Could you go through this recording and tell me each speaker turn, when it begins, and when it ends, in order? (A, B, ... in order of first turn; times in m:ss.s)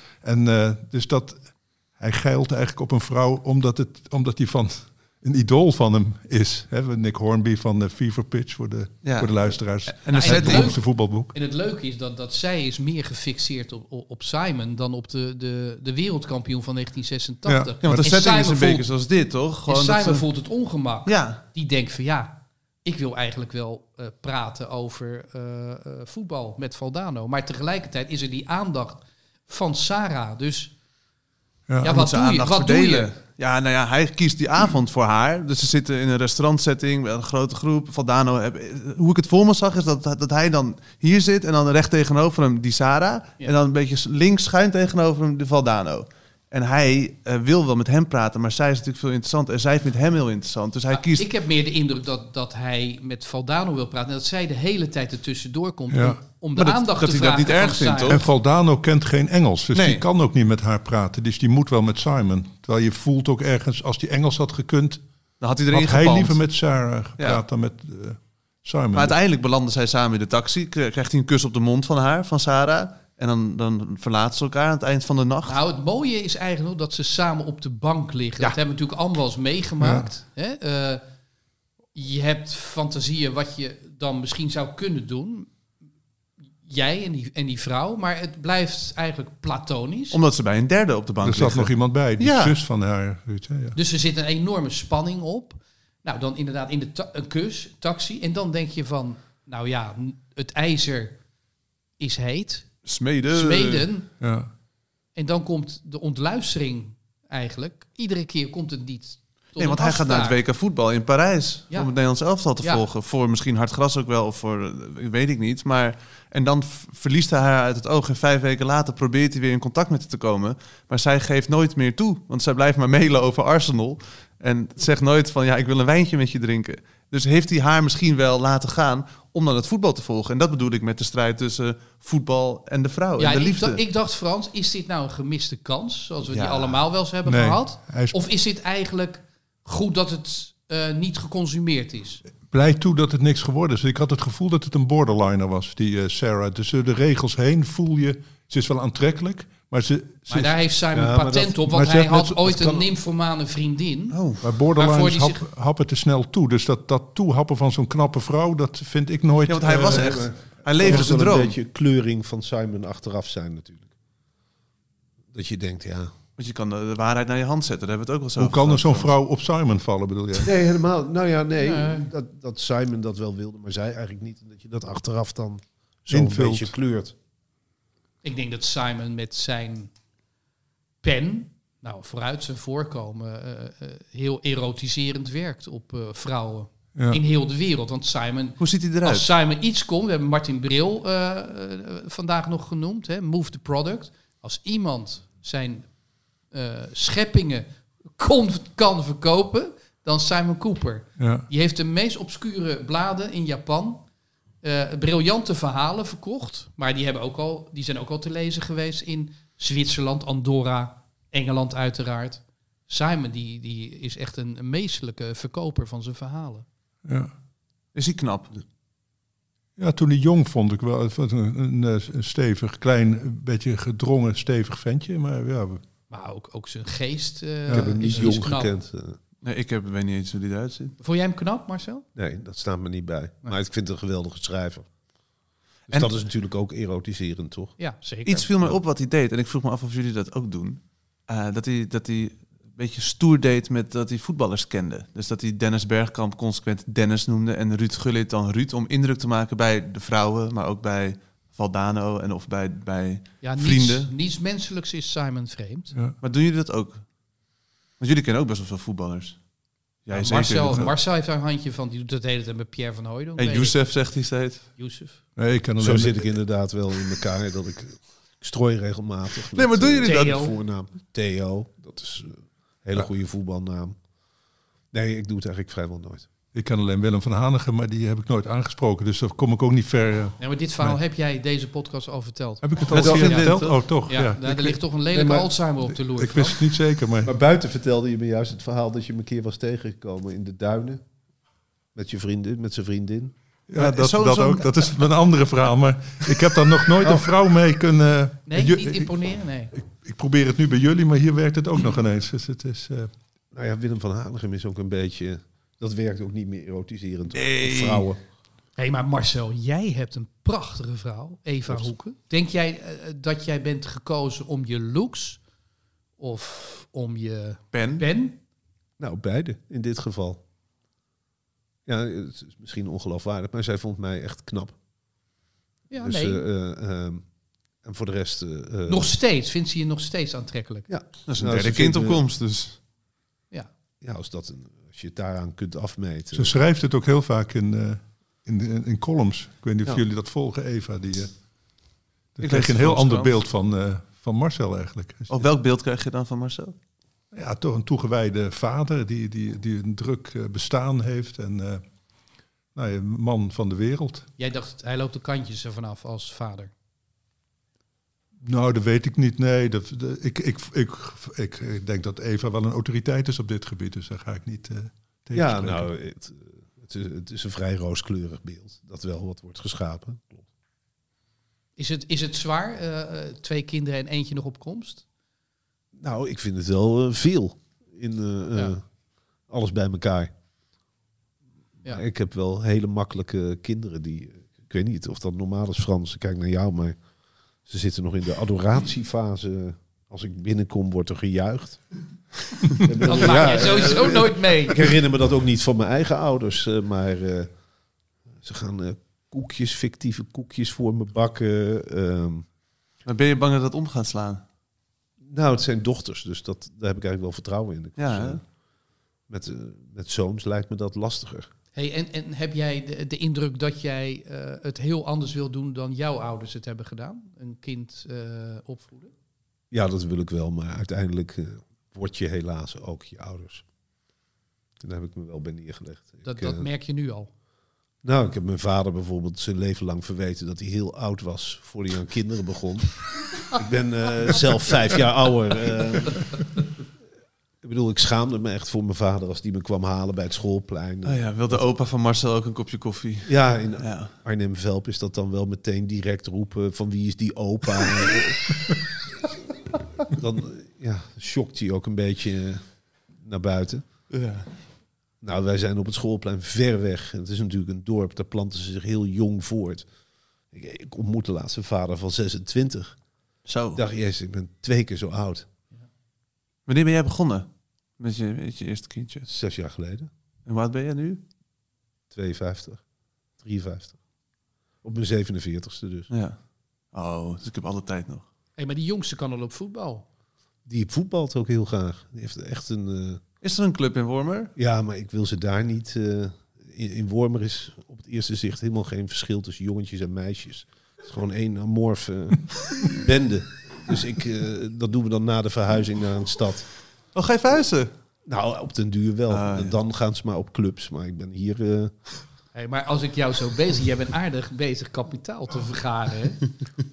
0:00.2-0:11.3 A
0:09.0-0:10.8 B
0:10.1-0:18.9 C
0:17.5-0:18.1 A
0:17.8-0:20.3 B
0:19.7-0:30.7 C
0:21.1-0:21.4 B
0:31.7-0:31.9 A
0:31.8-0:33.1 C
0:31.9-0:51.3 B
0:50.9-0:58.2 C
0:55.9-0:56.2 A
0:56.6-0:58.3 B
0:58.1-1:05.0 A
0:59.7-1:00.0 B
1:05.4-1:06.4 B
1:05.7-1:09.2 A
1:08.9-1:15.6 B
1:15.5-1:21.0 C
1:19.8-1:20.1 A
1:21.9-1:25.5 C
1:26.6-1:30.2 C
1:30.1-1:32.6 B
1:31.2-1:33.8 A
1:33.8-1:41.2 C
1:42.0-1:44.1 C
1:42.8-1:43.9 B
1:44.2-1:44.5 A
1:45.2-1:50.4 C
1:49.6-2:13.8 B
1:52.6-1:52.8 C
2:13.2-2:22.2 C
2:16.3-2:16.8 B
2:17.2-2:18.2 A
2:22.5-2:30.6 A
2:30.3-2:34.2 C
2:30.9-2:31.6 D
2:31.7-2:32.5 A
2:32.5-2:32.9 D
2:34.1-2:34.4 B
2:34.4-2:40.3 A
2:34.7-2:35.4 C
2:39.5-2:41.6 B
2:39.8-2:43.9 D
2:45.3-2:46.1 D
2:46.4-2:49.1 B
2:48.4-2:50.5 A
2:50.4-2:57.1 D
2:51.6-2:52.1 C
2:56.1-2:56.7 A
2:58.2-2:59.9 C
3:01.0-3:15.9 C
3:07.0-3:07.2 A
3:08.6-3:09.3 B
3:16.5-3:24.0 C
3:21.2-3:21.5 A
3:24.6-3:36.7 C
3:37.1-3:37.3 A
3:38.0-3:38.5 B
3:39.8-3:45.8 A
3:46.1-3:48.8 C
3:47.7-3:48.2 A
3:47.7-3:49.2 D
3:49.4-3:51.0 B
3:51.0-3:52.1 C
3:52.2-3:54.9 D
3:55.9-3:57.8 D
3:55.9-3:56.2 B
3:57.8-3:58.5 C
3:58.2-4:14.1 B
4:13.4-4:15.9 C
4:16.2-4:17.0 B
4:18.0-4:19.4 B
4:20.0-4:20.9 B
4:20.1-4:23.8 C
4:23.4-4:24.7 B
4:24.8-4:25.2 C
4:25.4-4:26.3 A
4:25.8-4:34.0 D
4:29.5-4:30.5 B
4:30.0-4:30.5 C
4:34.9-4:36.3 D
4:36.5-4:41.0 A
4:40.4-4:42.6 C
4:42.6-4:44.8 A
4:42.9-4:43.8 B
4:43.0-4:43.4 D
4:44.1-4:46.6 C
4:45.1-4:45.5 D
4:46.1-4:47.3 A
4:47.2-4:51.0 D
4:52.0-4:53.3 D
4:53.7-5:03.1 A
4:53.8-4:54.9 B
4:57.0-4:57.3 D
4:58.5-4:59.7 C
5:03.5-5:08.2 D
5:07.3-5:08.1 B
5:08.8-5:15.4 C
5:16.2-5:18.4 C
5:17.7-5:18.0 B
5:19.0-5:20.4 D
5:21.9-5:24.8 D
5:25.9-5:26.5 C
5:26.0-5:27.2 D
5:27.8-5:29.1 D
5:28.9-5:30.9 C
5:30.9-5:32.2 D
5:31.3-5:32.8 B
5:34.0-5:36.6 D
5:36.3-5:41.3 A
5:42.4-5:45.4 A
5:42.4-5:43.3 B
5:45.3-5:46.8 B
5:47.3-5:51.8 A
5:52.7-5:54.3 A
5:54.4-5:56.7 C
5:58.4-6:05.9 A
6:05.3-6:10.5 D
6:11.8-6:15.0 C
6:16.0-6:18.8 D
6:19.5-6:20.3 D
6:21.8-6:27.0 D
6:27.7-6:31.8 D
6:32.8-6:37.5 D
6:33.0-6:34.8 C
6:38.4-6:42.5 D
6:43.0-6:44.4 B
6:45.2-6:48.4 D
6:48.0-6:48.4 B
6:49.3-6:51.5 D
6:51.8-6:59.1 C
6:59.7-7:03.6 D
7:04.8-7:06.7 D
7:06.2-7:07.3 C
7:08.0-7:16.6 D
7:17.6-7:21.7 D
7:21.0-7:24.1 B
7:23.2-7:28.8 D
7:30.0-7:32.6 D
7:33.2-7:33.8 D
7:34.1-7:34.5 B
7:35.2-7:39.9 D
7:40.5-7:43.0 D
7:43.5-7:43.8 B
7:43.7-7:45.5 D
7:46.7-7:47.5 B
7:48.0-7:49.3 B
7:49.3-7:50.1 D
7:50.5-7:51.2 B
7:52.1-7:52.8 D
7:53.4-7:54.0 D
7:54.8-7:56.1 D
7:56.1-7:56.4 B
7:56.9-7:58.3 B
7:58.6-8:00.0 C
8:00.7-8:03.2 D
8:03.4-8:04.5 B
8:04.6-8:16.7 D
8:17.1-8:17.9 B
8:18.3-8:21.9 D
8:19.3-8:19.8 B
8:22.6-8:26.5 C